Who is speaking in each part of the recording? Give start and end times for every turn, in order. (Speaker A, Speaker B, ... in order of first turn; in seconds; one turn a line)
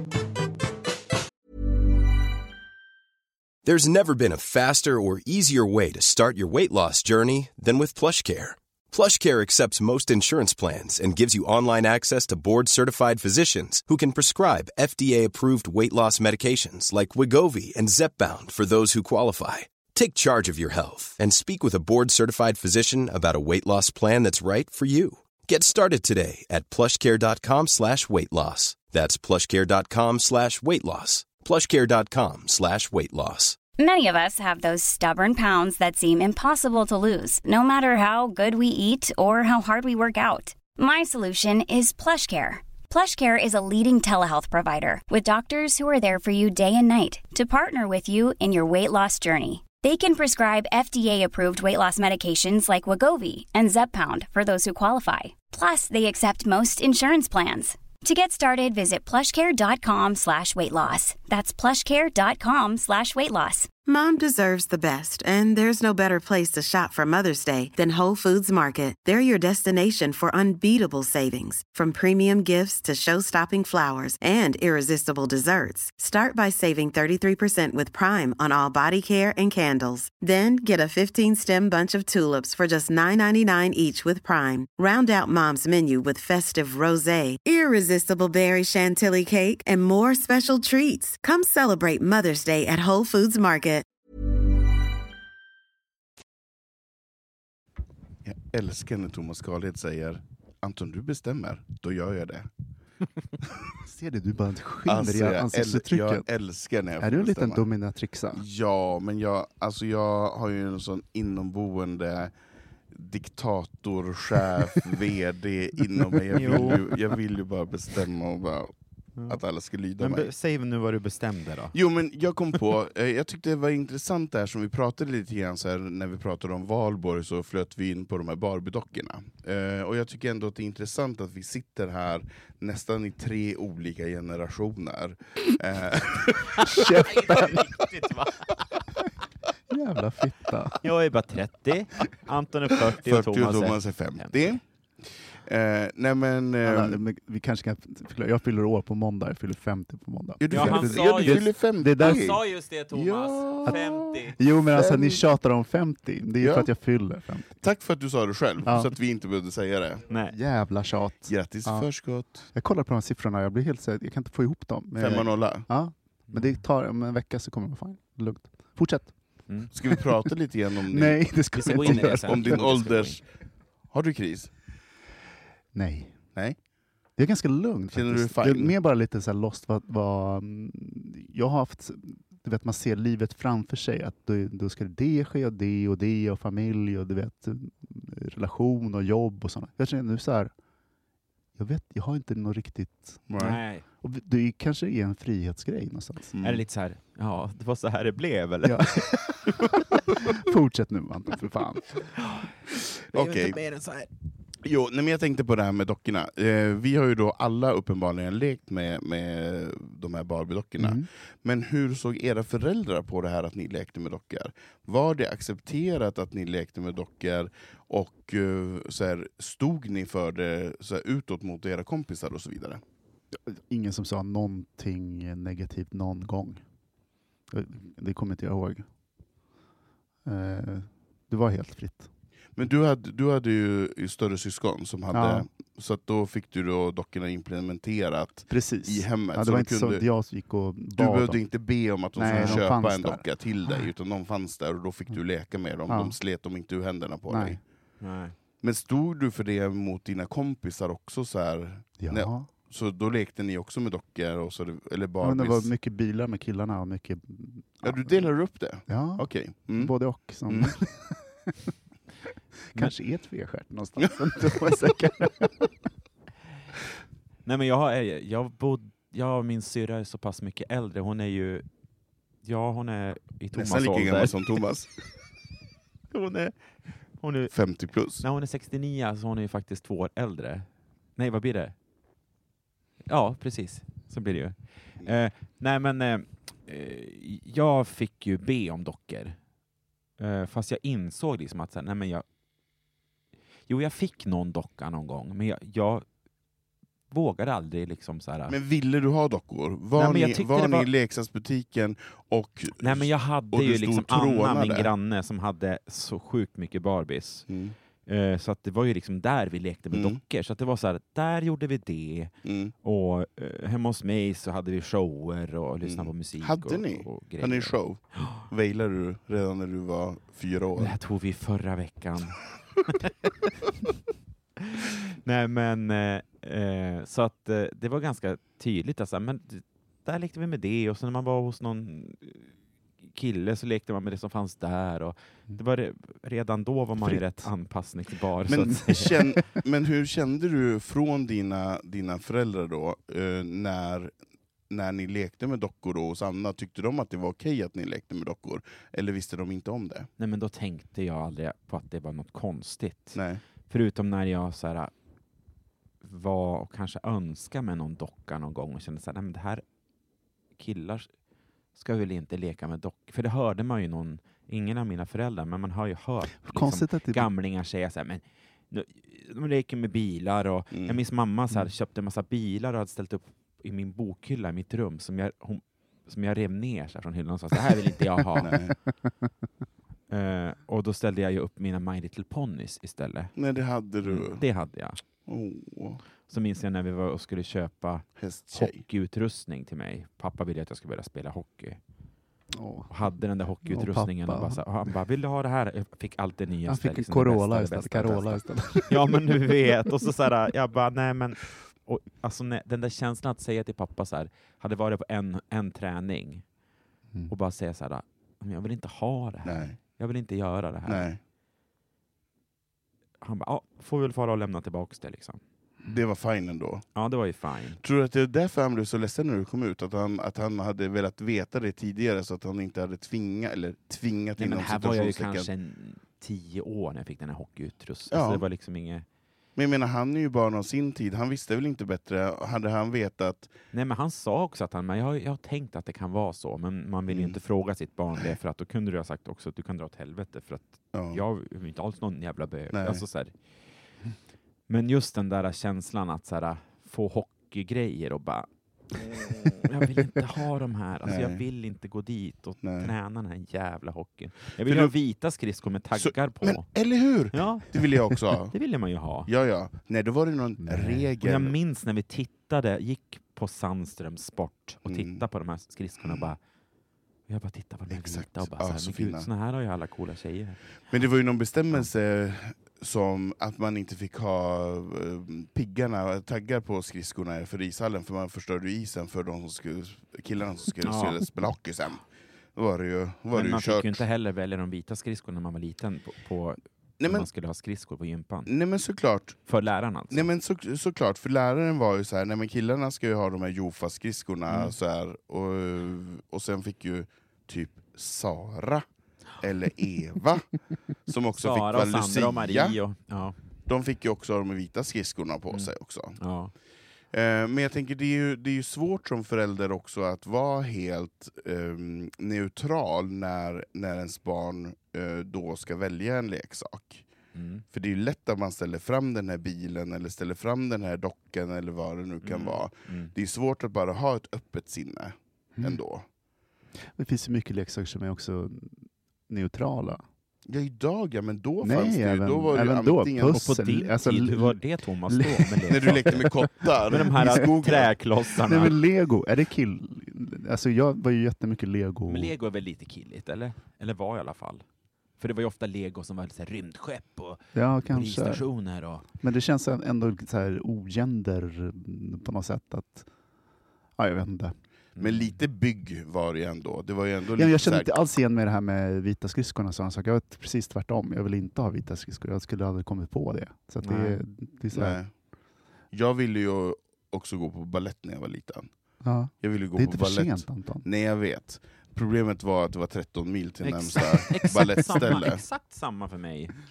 Speaker A: 3.6-33.6
Speaker B: 33.8-63.7
Speaker C: 63.9-93.9
Speaker D: 98.2-102.5
Speaker E: 103.8-106.3
Speaker D: 104.9-107.7
Speaker E: 107.0-108.4
Speaker D: 108.3-112.3
Speaker D: 112.9-118.7
Speaker F: 116.3-116.8
Speaker E: 116.4-116.8
Speaker D: 119.3-120.3
Speaker F: 120.0-121.8
Speaker D: 121.7-136.8
Speaker E: 136.6-137.8
Speaker F: 137.1-138.6
Speaker E: 139.7-140.8
Speaker F: 140.8-144.6
Speaker D: 143.0-147.0
Speaker E: 146.6-152.4
Speaker D: 150.4-154.2
Speaker F: 150.5-154.5
Speaker E: 153.6-157.6
Speaker D: 154.7-155.2
Speaker D: 156.4-156.7
Speaker D: 157.6-160.1
Speaker E: 158.6-158.9
Speaker F: 160.1-160.4
Speaker E: 160.3-169.7
Speaker D: 161.3-162.5
Speaker D: 165.0-165.7
Speaker F: 166.3-166.6
Speaker D: 169.7-173.3
Speaker E: 170.9-172.7
Speaker F: 171.5-173.2
Speaker D: 173.9-174.5
Speaker E: 175.7-176.3
Speaker E: 177.2-190.5
Speaker D: 177.9-178.7
Speaker E: 191.6-196.3
Speaker D: 193.3-193.6
Speaker F: 193.4-193.8
Speaker D: 196.3-196.7
Speaker F: 196.4-199.8
Speaker E: 198.6-199.5
Speaker E: 200.2-202.1
Speaker F: 202.2-202.5
Speaker D: 203.1-203.6
Speaker F: 203.1-204.1
Speaker D: 204.6-222.8
Speaker E: 210.8-211.1
Speaker E: 223.3-226.6
Speaker E: 227.5-228.9
Speaker E: 230.2-232.1
Speaker D: 232.6-240.1
Speaker E: 235.1-235.5
Speaker E: 238.5-241.4
Speaker D: 241.0-247.6
Speaker E: 242.2-243.8
Speaker E: 245.9-246.2
Speaker E: 247.3-247.6
Speaker F: 248.0-248.4
Speaker D: 248.6-255.7
Speaker E: 252.0-252.5
Speaker E: 255.2-258.3
Speaker D: 257.8-260.7
Speaker E: 258.9-261.7
Speaker E: 262.7-265.7
Speaker F: 267.4-271.7
Speaker F: 272.4-274.6
Speaker D: 273.6-274.9
Speaker F: 276.1-281.8
Speaker D: 277.5-278.2
Speaker F: 283.1-289.4
Speaker F: 290.2-292.2
Speaker F: 293.7-296.1
Speaker F: 297.1-298.6
Speaker D: 298.5-304.9
Speaker F: 300.0-300.9
Speaker F: 302.8-307.5
Speaker D: 307.5-307.8
Speaker F: 308.1-318.4
Speaker D: 309.9-310.2
Speaker D: 312.4-312.7
Speaker D: 315.8-320.9
Speaker F: 320.8-322.4
Speaker F: 324.7-332.5
Speaker F: 333.0-339.2
Speaker E: 337.1-337.5
Speaker D: 338.5-344.1
Speaker E: 338.7-339.2
Speaker D: 344.7-350.1
Speaker F: 350.2-354.9
Speaker D: 353.1-353.4
Speaker F: 356.0-359.6
Speaker F: 360.6-361.1
Speaker F: 361.8-378.5
Speaker E: 366.4-367.3
Speaker D: 370.7-371.0
Speaker D: 378.4-378.7
Speaker F: 380.1-383.4
Speaker D: 383.4-384.4
Speaker F: 384.0-385.0
Speaker D: 385.2-386.0
Speaker F: 386.3-391.8
Speaker D: 388.2-388.8
Speaker E: 392.5-394.6
Speaker F: 392.9-406.4
Speaker E: 396.7-399.5
Speaker F: 407.3-411.1
Speaker D: 409.4-409.8
Speaker D: 410.9-411.2
Speaker F: 413.2-415.4
Speaker D: 415.9-417.0
Speaker F: 416.9-417.8
Speaker D: 417.8-425.5
Speaker F: 424.4-429.1
Speaker D: 428.1-428.4
Speaker D: 429.6-433.5
Speaker F: 433.7-443.4
Speaker D: 437.1-437.4
Speaker D: 440.9-441.2
Speaker D: 442.7-443.0
Speaker F: 444.7-456.7
Speaker D: 451.1-451.4
Speaker D: 452.6-452.9
Speaker D: 454.7-454.9
Speaker D: 456.0-458.6
Speaker F: 457.3-459.3
Speaker D: 459.3-461.6
Speaker E: 460.6-461.1
Speaker F: 461.2-466.4
Speaker D: 464.9-465.2
Speaker F: 467.3-470.6
Speaker D: 467.9-469.3
Speaker D: 470.9-484.0
Speaker F: 480.9-481.2
Speaker F: 483.3-488.5
Speaker D: 487.0-487.3
Speaker D: 488.5-489.6
Speaker F: 489.5-490.3
Speaker D: 490.1-498.9
Speaker F: 494.5-494.7
Speaker D: 499.4-502.8
Speaker F: 501.4-503.4
Speaker D: 503.7-506.2
Speaker F: 505.5-506.5
Speaker D: 507.1-517.1
Speaker F: 517.4-517.6
Speaker D: 517.7-526.0
Speaker F: 522.2-523.1
Speaker E: 526.8-530.0
Speaker D: 530.5-533.5
Speaker E: 531.6-536.4
Speaker F: 533.3-536.1
Speaker D: 535.7-538.0
Speaker F: 536.9-538.8
Speaker E: 537.0-537.5
Speaker E: 538.4-542.3
Speaker F: 542.1-544.6
Speaker F: 545.2-549.1
Speaker E: 547.5-548.5
Speaker E: 549.2-553.1
Speaker E: 554.0-554.5
Speaker F: 555.0-555.4
Speaker D: 555.0-557.9
Speaker E: 557.4-565.0
Speaker F: 563.8-564.2
Speaker D: 564.7-565.1
Speaker D: 565.9-568.7
Speaker E: 569.0-570.9
Speaker D: 569.4-575.4
Speaker F: 573.6-576.6